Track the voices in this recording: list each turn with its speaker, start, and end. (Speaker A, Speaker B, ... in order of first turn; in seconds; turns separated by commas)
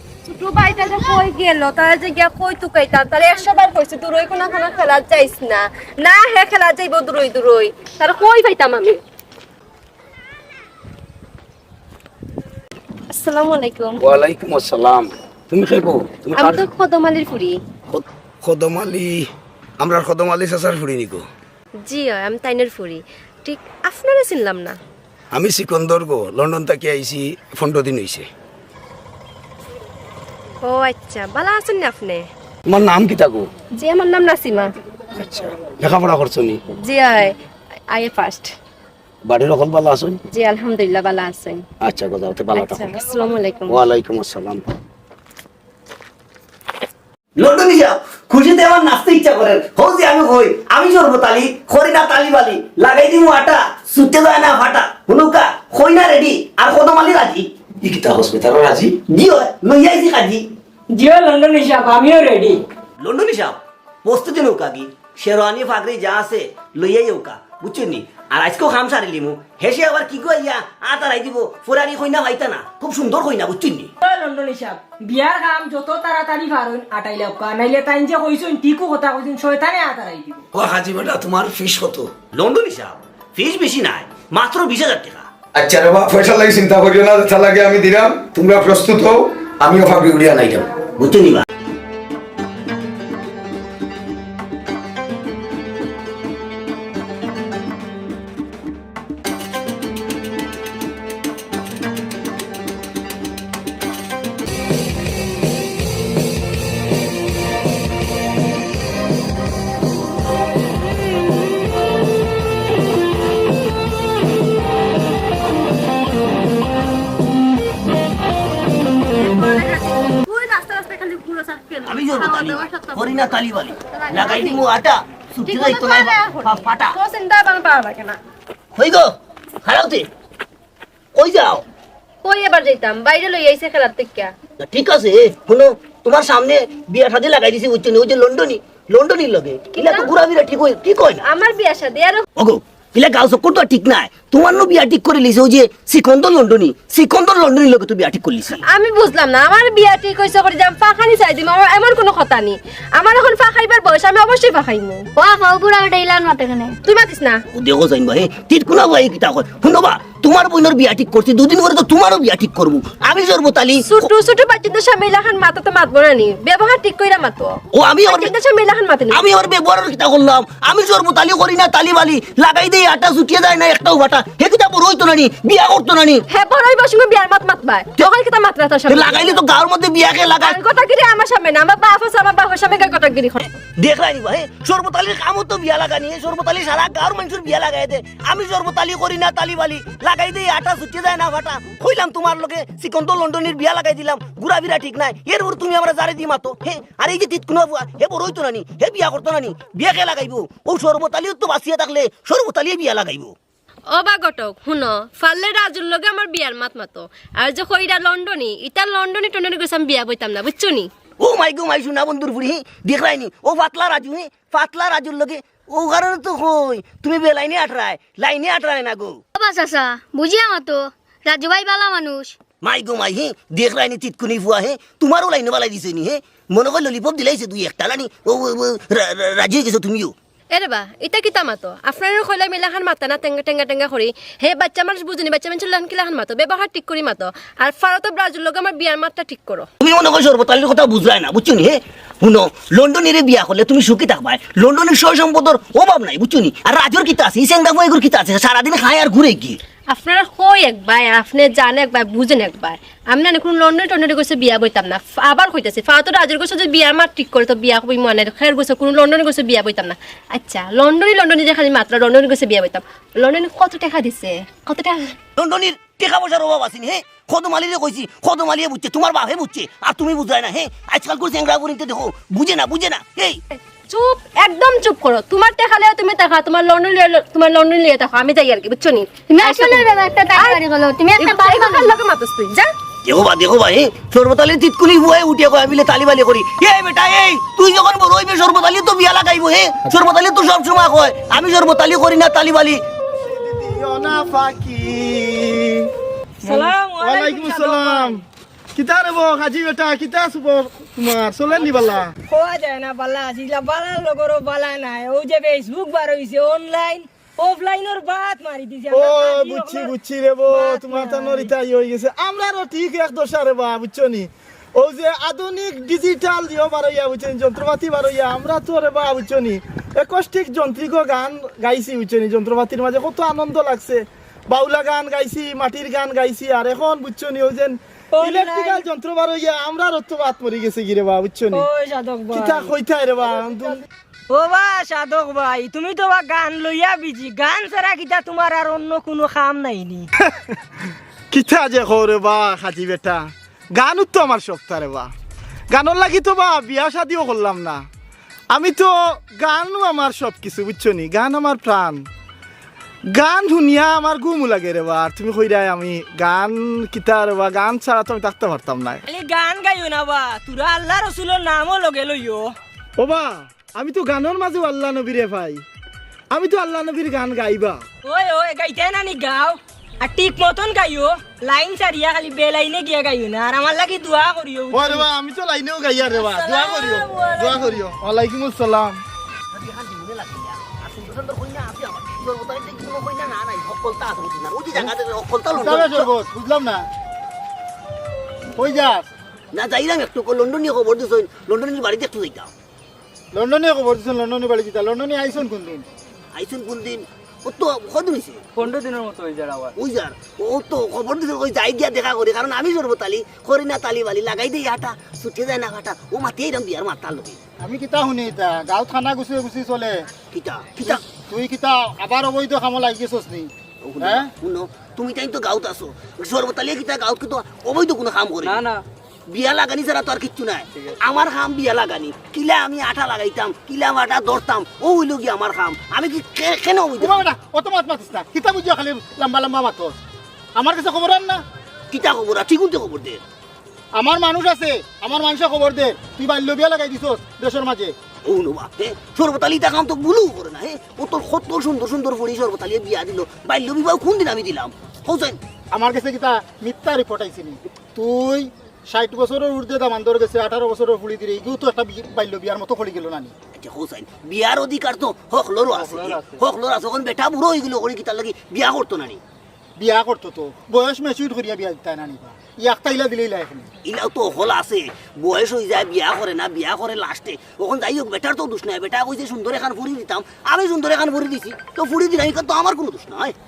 Speaker A: 0.3-9.0, Speaker A: 13.1-14.0, Speaker B: 14.0-16.6, Speaker A: 16.4-17.6, Speaker B: 17.9-19.2, Speaker B: 19.8-21.2, Speaker A: 21.9-24.8, Speaker B: 25.3-28.3, Speaker A: 30.6-32.2, Speaker B: 32.7-33.5, Speaker A: 33.8-34.7, Speaker B: 35.1-36.6, Speaker A: 36.9-37.3, Speaker A: 37.9-38.5, Speaker B: 39.2-40.2, Speaker A: 40.3-41.6, Speaker B: 41.8-42.9, Speaker A: 42.5-43.8, Speaker B: 43.7-44.6, Speaker C: 47.4-57.5, Speaker B: 57.8-59.0, Speaker C: 59.1-60.5, Speaker D: 60.9-62.6, Speaker C: 63.0-73.9, Speaker D: 74.0-80.4, Speaker B: 80.5-82.1, Speaker C: 82.3-85.3, Speaker B: 85.5-90.7, Speaker C: 91.0-91.4, Speaker A: 119.2-123.0, Speaker C: 121.8-126.9, Speaker A: 124.1-124.6, Speaker A: 125.5-128.2, Speaker C: 128.7-130.1, Speaker C: 131.1-131.6, Speaker A: 132.2-134.3, Speaker C: 134.6-141.2, Speaker A: 139.7-140.1, Speaker A: 141.2-142.2, Speaker C: 142.3-148.6, Speaker A: 148.7-155.1, Speaker E: 155.2-156.8, Speaker A: 156.8-157.4, Speaker C: 157.5-164.1, Speaker A: 163.8-169.3, Speaker C: 167.7-168.3, Speaker C: 169.1-176.2, Speaker A: 176.3-179.4, Speaker C: 178.9-180.6, Speaker A: 180.4-183.5, Speaker C: 183.8-203.3, Speaker A: 203.9-210.9, Speaker C: 211.2-219.2, Speaker E: 219.3-222.3, Speaker C: 222.6-230.1, Speaker A: 230.5-239.7, Speaker C: 239.8-249.6, Speaker A: 249.9-265.1, Speaker C: 265.4-273.4, Speaker A: 273.9-280.6, Speaker E: 279.3-281.9, Speaker A: 281.2-282.7, Speaker C: 283.0-292.8, Speaker F: 293.0-295.9, Speaker D: 296.4-298.2, Speaker F: 296.4-298.2, Speaker F: 298.7-302.1, Speaker D: 301.6-309.9, Speaker F: 308.9-331.6, Speaker D: 310.5-311.5, Speaker D: 328.1-328.8, Speaker D: 331.5-332.7, Speaker F: 332.3-333.8, Speaker D: 334.3-340.1, Speaker F: 341.3-345.1, Speaker F: 345.7-347.9, Speaker F: 348.5-352.1, Speaker F: 353.1-359.0, Speaker D: 359.1-362.5, Speaker F: 363.0-365.6, Speaker F: 366.3-367.8, Speaker D: 368.0-375.1, Speaker F: 374.7-379.0, Speaker D: 376.1-377.8, Speaker C: 379.5-386.1, Speaker G: 385.5-386.9, Speaker G: 388.5-389.1, Speaker C: 389.5-392.5, Speaker G: 393.3-395.9, Speaker C: 396.3-398.4, Speaker H: 398.6-399.7, Speaker C: 399.8-407.4, Speaker G: 407.6-410.1, Speaker C: 410.3-411.0, Speaker G: 410.8-414.3, Speaker C: 413.8-418.6, Speaker H: 418.4-418.8, Speaker C: 419.3-427.2, Speaker G: 427.0-430.0, Speaker G: 430.5-431.4, Speaker C: 431.9-433.2, Speaker G: 433.9-437.9, Speaker C: 438.2-445.4, Speaker G: 445.7-453.3, Speaker C: 453.5-459.2, Speaker H: 455.9-456.2, Speaker G: 459.8-463.7, Speaker C: 463.8-473.3